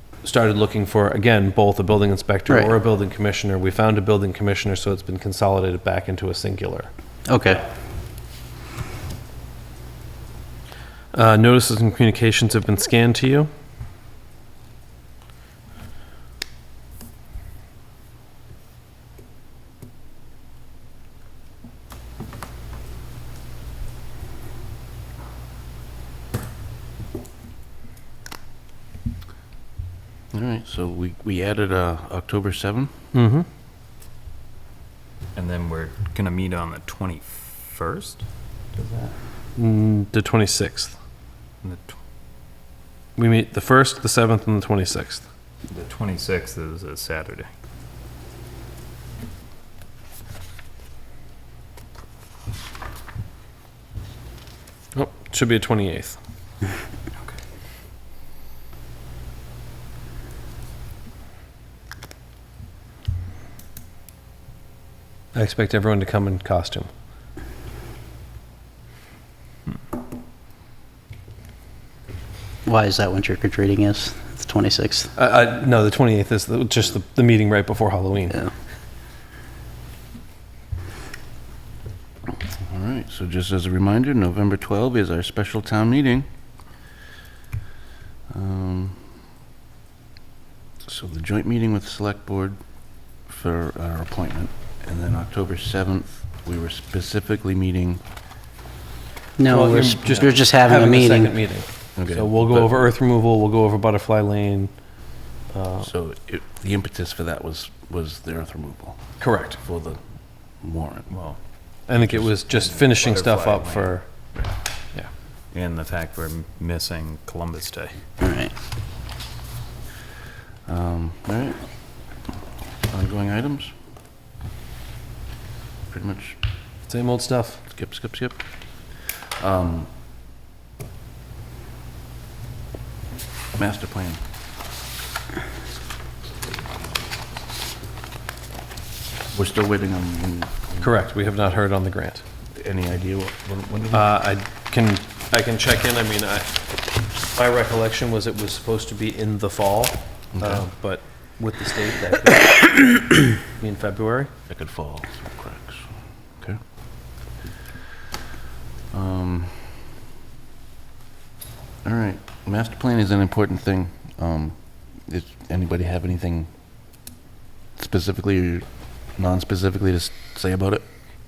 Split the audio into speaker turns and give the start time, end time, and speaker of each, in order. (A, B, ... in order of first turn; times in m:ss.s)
0:00.2-0:06.9 A
0:02.5-0:02.8 B
0:07.3-0:07.6 B
0:11.1-0:13.5 A
0:30.3-0:33.0 C
0:33.1-0:33.5 A
0:35.3-0:39.2 D
0:39.5-0:41.0 A
0:41.6-0:42.0 D
0:43.2-0:45.2 A
0:45.7-0:47.5 D
0:54.9-0:56.2 A
1:05.3-1:06.9 A
1:12.6-1:15.1 B
1:15.2-1:18.4 A
1:22.5-1:26.2 C
1:28.3-1:29.2 C
1:30.8-1:32.6 C
1:33.2-1:38.0 C
1:39.4-1:41.3 B
1:39.5-1:44.7 A
1:42.0-1:42.8 C
1:45.5-1:45.9 A
1:45.8-1:50.0 C
1:49.2-1:49.6 A
1:50.6-1:51.2 C
1:51.1-1:51.4 D
1:51.9-1:54.1 A
1:52.3-1:53.9 D
1:55.4-1:58.0 D
1:58.2-1:58.5 B
2:00.7-2:02.2 C
2:02.9-2:03.8 C
2:05.9-2:06.4 C
2:06.9-2:07.6 A
2:07.7-2:09.9 C
2:13.6-2:14.2 C
2:19.3-2:20.9 C
2:20.8-2:22.2 A
2:22.5-2:24.2 C
2:23.9-2:26.5 A
2:27.2-2:34.3 A
2:30.3-2:30.6 C
2:34.5-2:36.6 C
2:38.9-2:39.9 C
2:41.8-2:46.5 C
2:47.8-2:50.8 C